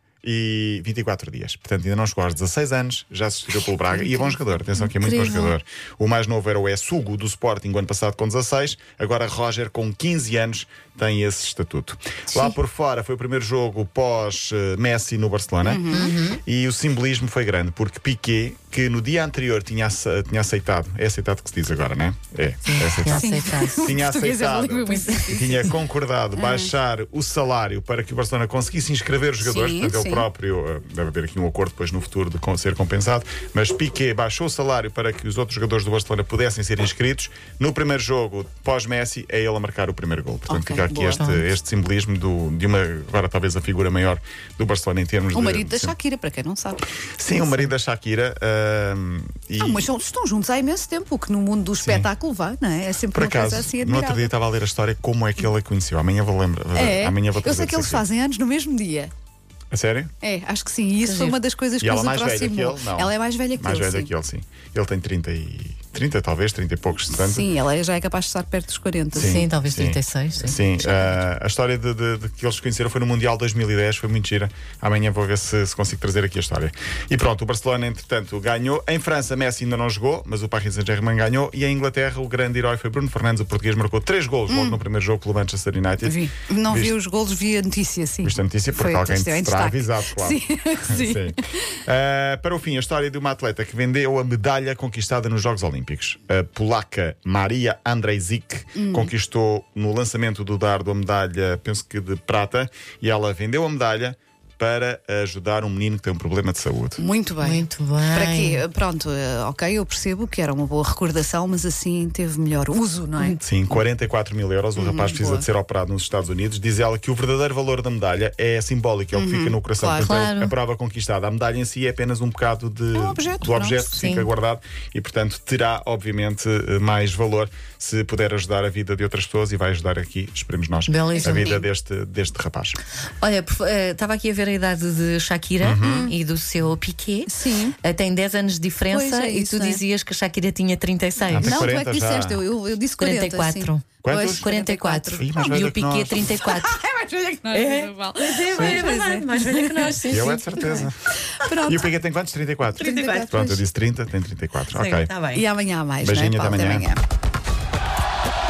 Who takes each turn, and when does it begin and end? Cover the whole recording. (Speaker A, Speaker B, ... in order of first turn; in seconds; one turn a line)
Speaker A: 0.2-45.9
Speaker B: 3.9-5.5
Speaker B: 15.6-16.1
Speaker C: 15.9-16.4
Speaker C: 22.6-23.9
Speaker B: 23.1-25.8
Speaker B: 26.4-26.7
Speaker B: 29.4-30.2
Speaker B: 40.5-41.2
Speaker C: 41.2-41.5
Speaker B: 45.3-47.7
Speaker A: 47.2-49.8
Speaker B: 49.6-54.3
Speaker A: 51.8-52.1
Speaker A: 53.1-58.0
Speaker B: 56.7-59.1
Speaker A: 59.7-60.1
Speaker B: 60.2-64.1
Speaker C: 61.0-61.4
Speaker A: 61.8-67.5
Speaker B: 67.1-69.4
Speaker C: 69.1-70.6
Speaker A: 69.1-86.9
Speaker B: 70.8-71.1
Speaker B: 84.5-84.8
Speaker B: 86.0-91.7
Speaker A: 88.2-107.0
Speaker B: 98.7-99.1
Speaker B: 107.0-113.4
Speaker C: 107.4-108.6
Speaker A: 113.4-132.8
Speaker B: 114.7-115.5
Speaker B: 119.1-120.1
Speaker C: 120.0-120.5
Speaker B: 122.9-124.0
Speaker C: 124.0-124.3
Speaker C: 130.9-131.7
Speaker B: 131.2-131.6
Speaker C: 133.2-141.7
Speaker A: 135.6-136.1
Speaker B: 135.8-136.1
Speaker B: 137.3-137.8
Speaker B: 138.9-139.8
Speaker A: 141.3-142.4
Speaker B: 141.4-145.6
Speaker C: 143.0-146.8
Speaker A: 144.0-144.4
Speaker A: 145.2-146.3
Speaker B: 146.3-150.8
Speaker C: 147.5-150.9
Speaker A: 150.0-151.0
Speaker B: 151.3-151.9
Speaker A: 151.6-155.1
Speaker B: 152.7-153.6
Speaker C: 152.8-153.3
Speaker C: 154.7-155.4
Speaker B: 155.2-157.0
Speaker A: 156.0-156.9